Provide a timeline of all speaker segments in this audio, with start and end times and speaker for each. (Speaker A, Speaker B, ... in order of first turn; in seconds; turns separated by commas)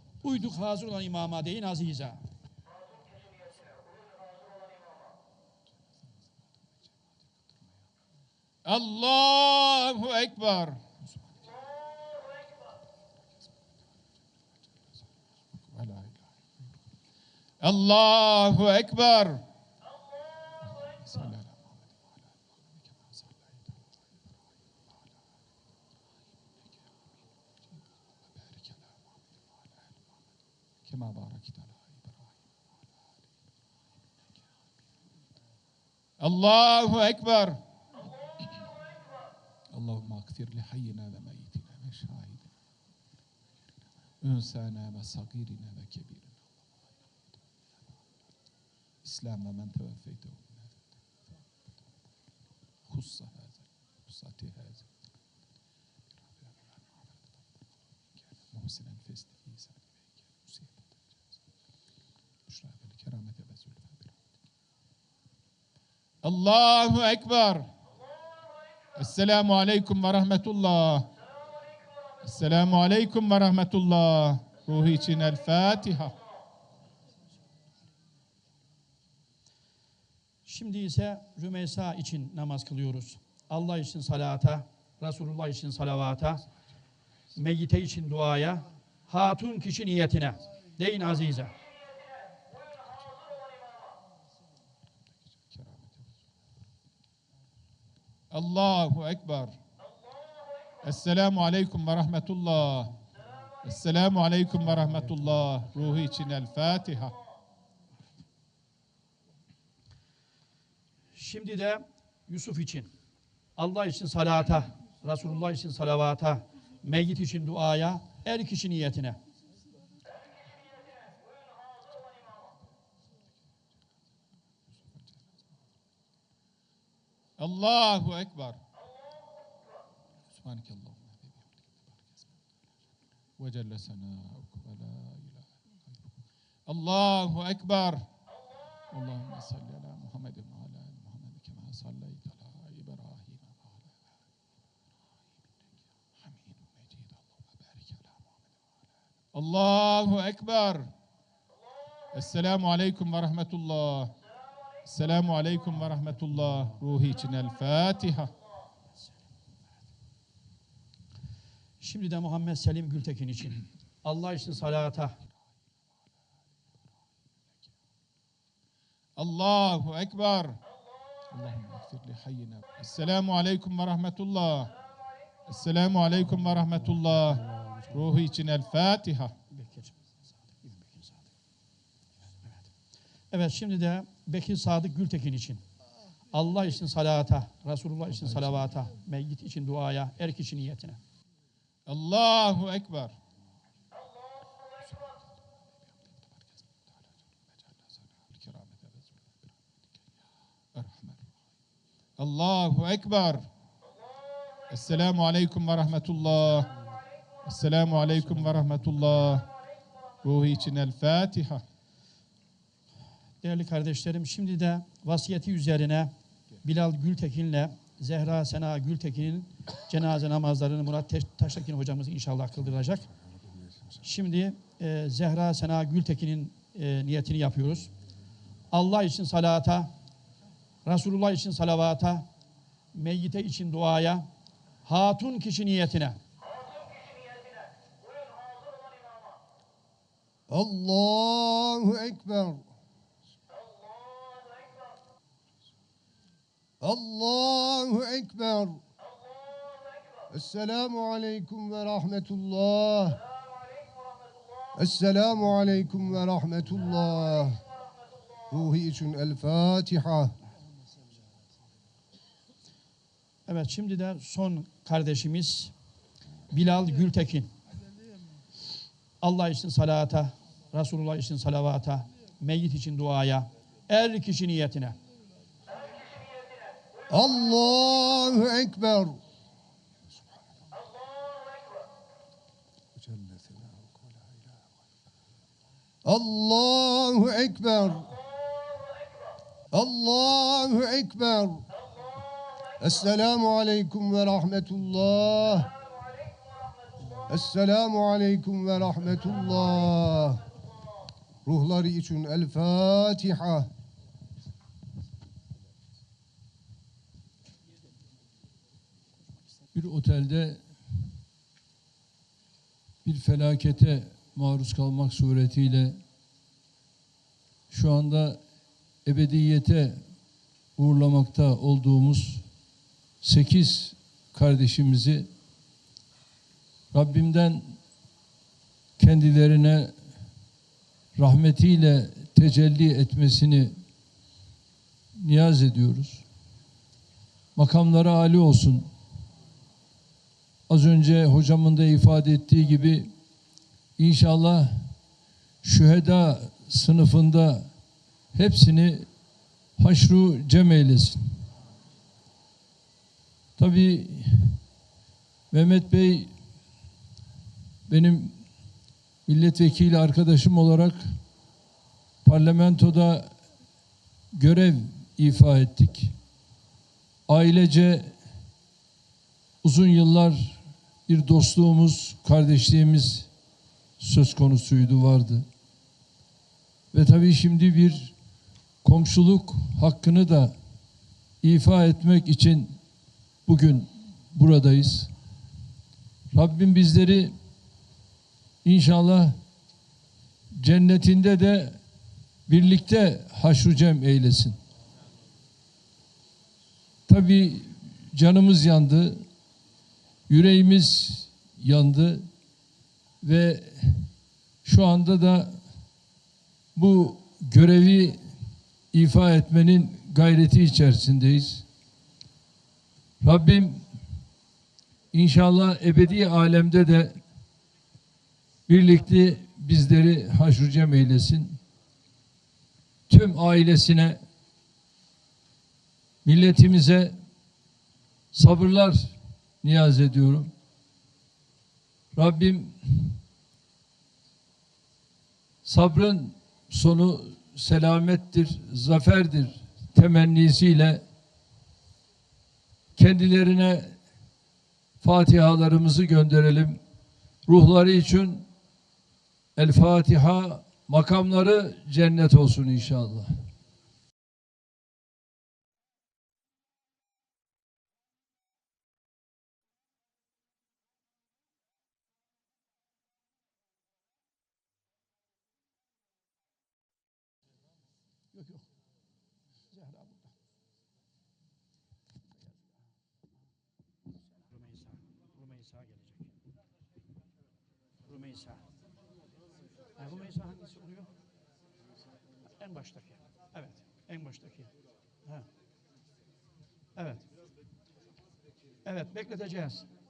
Speaker A: 0.2-2.2, Speaker B: 8.7-10.8, Speaker B: 15.7-16.3, Speaker B: 17.6-19.4, Speaker B: 20.8-21.7, Speaker B: 23.0-23.5, Speaker B: 28.4-28.9, Speaker B: 30.8-32.1, Speaker B: 36.2-37.6, Speaker B: 39.7-42.5, Speaker B: 44.2-46.3, Speaker B: 49.0-50.7, Speaker B: 52.9-54.9, Speaker B: 58.4-59.8, Speaker B: 60.4-60.8, Speaker B: 62.5-64.1, Speaker B: 66.2-67.7, Speaker B: 69.0-71.1, Speaker B: 72.2-76.2, Speaker A: 80.5-86.5, Speaker A: 87.3-91.5, Speaker B: 95.5-96.0, Speaker B: 98.3-99.5, Speaker B: 100.8-102.9, Speaker B: 103.6-107.2, Speaker A: 111.1-112.9, Speaker A: 113.5-119.2, Speaker B: 127.4-128.6, Speaker B: 130.3-131.6, Speaker B: 133.4-135.5, Speaker B: 136.7-138.0, Speaker B: 138.9-143.9, Speaker B: 146.2-148.1, Speaker B: 149.3-150.9, Speaker B: 152.1-154.1, Speaker B: 154.8-158.3, Speaker A: 156.3-156.7, Speaker A: 161.8-165.1, Speaker B: 169.2-170.6, Speaker B: 171.3-174.7, Speaker B: 175.5-177.4, Speaker A: 176.3-178.1, Speaker B: 177.9-179.3, Speaker A: 179.5-181.3, Speaker A: 183.3-185.6, Speaker A: 186.3-191.0, Speaker B: 188.2-188.7, Speaker B: 191.9-193.2, Speaker B: 198.2-199.1, Speaker B: 200.8-201.2, Speaker B: 202.2-203.5, Speaker B: 204.7-206.7, Speaker B: 207.4-209.5, Speaker B: 210.2-211.6, Speaker A: 213.4-216.1, Speaker A: 216.6-223.1, Speaker A: 224.0-227.9, Speaker A: 228.7-229.9, Speaker A: 230.8-232.3, Speaker A: 232.9-234.3, Speaker A: 234.8-236.2, Speaker C: 240.5-242.6, Speaker C: 246.8-248.8, Speaker C: 250.3-253.2, Speaker C: 254.8-257.6, Speaker C: 258.5-260.4, Speaker A: 263.5-265.7, Speaker A: 266.5-267.5, Speaker A: 269.2-275.0, Speaker C: 277.1-279.1, Speaker C: 283.0-284.1, Speaker C: 286.0-288.1, Speaker C: 289.7-291.6, Speaker C: 292.8-295.7, Speaker C: 297.3-300.4, Speaker C: 301.4-303.7, Speaker D: 309.8-310.8, Speaker D: 313.0-315.9, Speaker D: 317.7-318.4, Speaker D: 319.0-319.9, Speaker D: 320.8-322.4, Speaker D: 323.2-325.2, Speaker D: 326.9-327.6, Speaker D: 329.0-329.9, Speaker D: 331.2-333.7, Speaker D: 335.2-336.2, Speaker D: 337.6-338.8, Speaker D: 340.7-343.1, Speaker D: 344.0-344.7, Speaker D: 345.6-347.6, Speaker D: 348.3-349.0, Speaker D: 349.8-351.1, Speaker D: 353.6-354.6, Speaker D: 355.5-356.3, Speaker D: 357.9-358.3, Speaker D: 359.3-361.0, Speaker D: 362.2-363.2, Speaker D: 364.4-366.1, Speaker D: 367.3-368.0, Speaker D: 369.6-373.3, Speaker D: 374.0-375.4, Speaker D: 376.9-378.1, Speaker D: 378.8-380.5, Speaker D: 381.4-382.7, Speaker D: 383.4-385.1, Speaker D: 386.3-387.3, Speaker D: 388.6-389.3, Speaker D: 390.6-391.7, Speaker D: 392.5-394.5, Speaker D: 397.1-399.1, Speaker D: 400.3-402.2, Speaker D: 403.2-404.1, Speaker D: 404.6-405.5, Speaker D: 406.8-408.1, Speaker D: 408.9-411.6, Speaker D: 413.2-413.7, Speaker D: 415.1-417.1, Speaker D: 418.7-421.4, Speaker D: 423.1-424.1, Speaker D: 426.2-427.1, Speaker D: 428.3-428.9, Speaker D: 429.6-430.5, Speaker D: 432.1-433.1, Speaker D: 435.6-441.0, Speaker D: 442.9-443.9, Speaker D: 445.0-446.8, Speaker D: 447.5-448.4, Speaker D: 449.6-453.2, Speaker A: 468.3-468.6, Speaker A: 469.7-470.3, Speaker A: 474.4-476.3, Speaker A: 478.0-478.6, Speaker A: 480.0-481.1, Speaker A: 482.6-484.7, Speaker A: 486.9-487.2, Speaker A: 488.9-489.9